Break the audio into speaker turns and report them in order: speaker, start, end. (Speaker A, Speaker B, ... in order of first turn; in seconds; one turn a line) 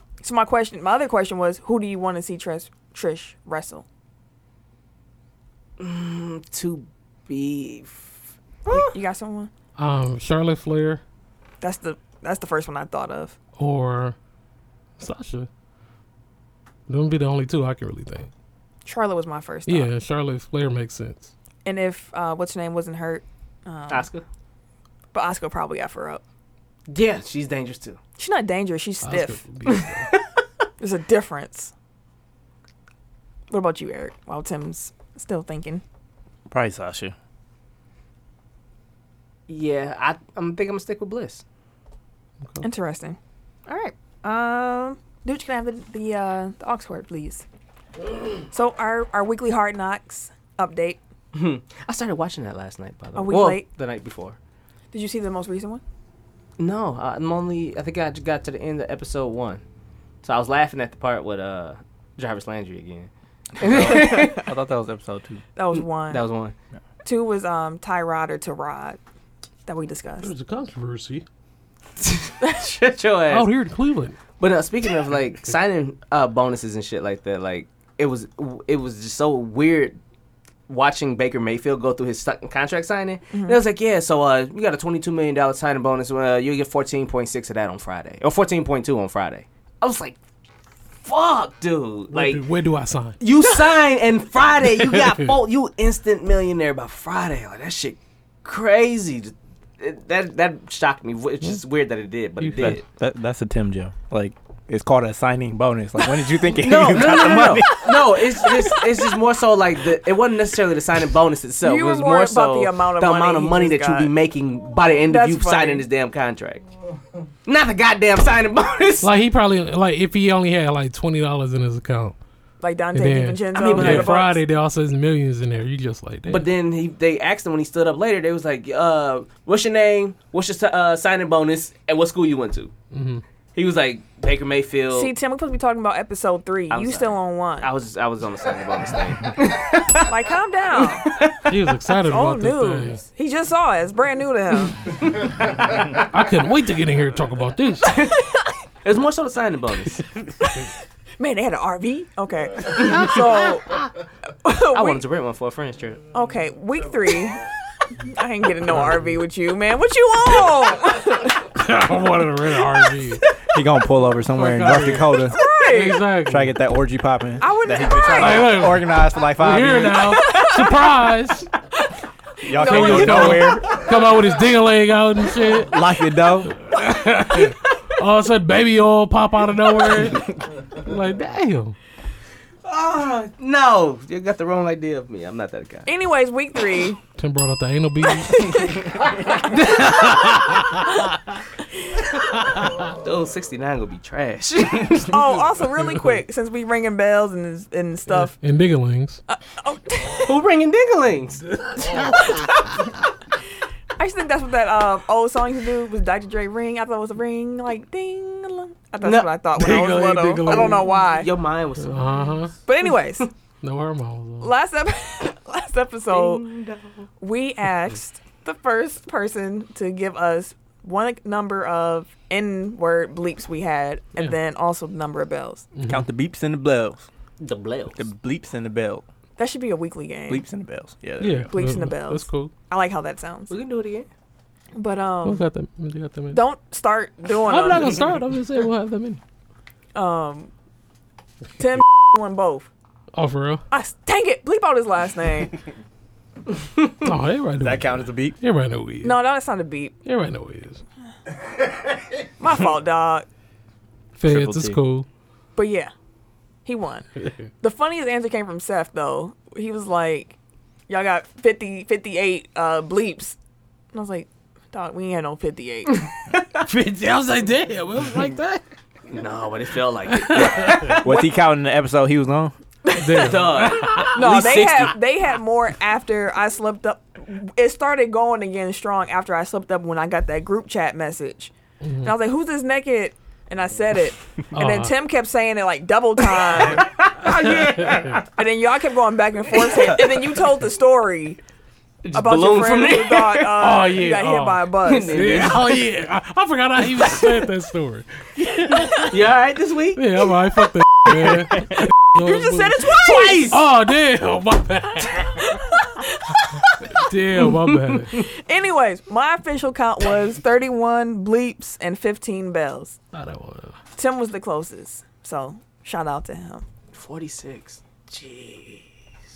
Speaker A: 0.2-3.8
Speaker B: 5.8-8.9
Speaker A: 8.7-9.5
Speaker C: 9.8-11.0
Speaker A: 11.6-13.3
Speaker C: 13.6-14.2
Speaker C: 15.0-15.5
Speaker C: 16.9-18.3
Speaker A: 18.9-19.9
Speaker C: 19.7-21.3
Speaker A: 21.6-24.1
Speaker B: 23.9-24.2
Speaker A: 25.1-26.2
Speaker B: 26.9-28.0
Speaker A: 28.2-29.4
Speaker C: 29.0-30.1
Speaker B: 29.7-30.4
Speaker A: 30.8-31.7
Speaker A: 33.5-35.8
Speaker D: 36.5-37.1
Speaker B: 39.5-41.4
Speaker A: 42.6-47.4
Speaker A: 48.5-51.0
Speaker B: 51.3-54.4
Speaker A: 53.1-53.6
Speaker A: 54.9-55.8
Speaker B: 56.6-59.6
Speaker B: 60.2-64.5
Speaker D: 63.6-65.4
Speaker A: 65.5-66.2
Speaker B: 65.7-66.5
Speaker A: 67.0-69.0
Speaker A: 69.7-70.3
Speaker C: 70.2-71.2
Speaker B: 72.0-73.5
Speaker C: 73.3-74.2
Speaker B: 74.4-80.0
Speaker B: 80.7-90.2
Speaker A: 83.3-83.6
Speaker B: 91.0-92.4
Speaker C: 92.1-93.2
Speaker B: 93.2-102.8
Speaker C: 94.7-95.3
Speaker C: 102.4-102.8
Speaker D: 102.5-108.4
Speaker B: 106.5-116.6
Speaker A: 111.6-114.1
Speaker A: 115.1-115.8
Speaker B: 117.5-119.1
Speaker C: 119.0-122.2
Speaker A: 122.6-124.4
Speaker C: 122.9-126.5
Speaker B: 123.5-124.2
Speaker B: 126.3-132.7
Speaker C: 132.9-133.2
Speaker B: 133.5-135.1
Speaker A: 134.9-137.7
Speaker B: 136.7-140.1
Speaker A: 140.1-141.1
Speaker B: 140.8-141.5
Speaker C: 141.4-143.0
Speaker A: 142.1-144.9
Speaker C: 145.9-147.9
Speaker B: 147.9-148.2
Speaker B: 148.8-150.0
Speaker A: 151.2-153.8
Speaker B: 152.8-153.2
Speaker A: 154.4-155.0
Speaker B: 154.7-156.0
Speaker A: 156.1-157.4
Speaker A: 157.9-161.5
Speaker C: 161.5-163.2
Speaker D: 163.5-165.4
Speaker C: 164.3-166.5
Speaker A: 165.2-166.0
Speaker D: 166.2-170.3
Speaker A: 167.4-168.7
Speaker C: 168.1-171.5
Speaker A: 170.1-170.7
Speaker D: 172.4-173.9
Speaker A: 172.5-173.7
Speaker C: 172.6-175.8
Speaker D: 175.6-176.5
Speaker C: 176.5-181.8
Speaker B: 182.6-185.9
Speaker A: 185.8-187.0
Speaker C: 187.2-188.8
Speaker A: 188.3-188.9
Speaker B: 189.3-190.6
Speaker C: 189.7-190.0
Speaker B: 192.6-195.4
Speaker A: 195.1-198.3
Speaker C: 198.1-199.2
Speaker A: 199.3-200.4
Speaker B: 200.2-202.1
Speaker A: 202.1-202.5
Speaker A: 204.0-211.3
Speaker B: 209.0-209.3
Speaker C: 209.6-210.9
Speaker B: 210.4-212.5
Speaker C: 211.8-212.5
Speaker A: 212.7-213.3
Speaker C: 213.6-214.5
Speaker A: 214.4-216.4
Speaker B: 216.1-217.1
Speaker A: 217.2-225.7
Speaker C: 225.7-226.1
Speaker D: 225.9-227.1
Speaker B: 227.4-228.0
Speaker D: 227.9-229.0
Speaker A: 229.4-230.4
Speaker D: 230.3-231.5
Speaker C: 231.2-232.5
Speaker A: 231.5-233.5
Speaker B: 233.5-234.1
Speaker A: 234.7-235.4
Speaker C: 235.2-236.4
Speaker A: 236.3-238.1
Speaker C: 237.4-239.2
Speaker A: 239.9-240.5
Speaker A: 241.6-242.7
Speaker C: 243.1-243.6
Speaker A: 243.7-245.6
Speaker C: 247.0-249.2
Speaker D: 247.6-248.4
Speaker A: 249.0-249.9
Speaker C: 250.0-250.8
Speaker A: 252.4-253.3
Speaker C: 254.2-255.1
Speaker D: 254.2-254.8
Speaker A: 255.6-255.9
Speaker A: 256.6-257.1
Speaker C: 257.2-257.5
Speaker A: 257.6-260.4
Speaker A: 260.9-263.4
Speaker A: 263.9-266.1
Speaker C: 266.6-268.6
Speaker B: 269.1-271.2
Speaker C: 270.1-270.9
Speaker D: 271.0-272.5
Speaker A: 272.8-273.3
Speaker C: 273.0-274.5
Speaker B: 273.1-275.0
Speaker A: 274.1-286.9
Speaker C: 281.8-282.1
Speaker C: 284.5-284.9
Speaker B: 286.5-288.3
Speaker C: 287.3-288.2
Speaker A: 288.3-291.4
Speaker B: 289.6-290.0
Speaker B: 292.0-293.7
Speaker A: 292.1-295.2
Speaker C: 293.6-299.1
Speaker B: 294.8-295.9
Speaker B: 297.0-297.3
Speaker B: 298.9-300.3
Speaker C: 299.9-305.6
Speaker B: 301.1-301.6
Speaker A: 302.2-303.5
Speaker B: 302.8-303.6
Speaker A: 305.4-306.6
Speaker C: 306.8-308.2
Speaker B: 307.4-308.2
Speaker A: 308.3-313.0
Speaker C: 313.1-313.8
Speaker A: 313.9-316.6
Speaker B: 316.9-318.9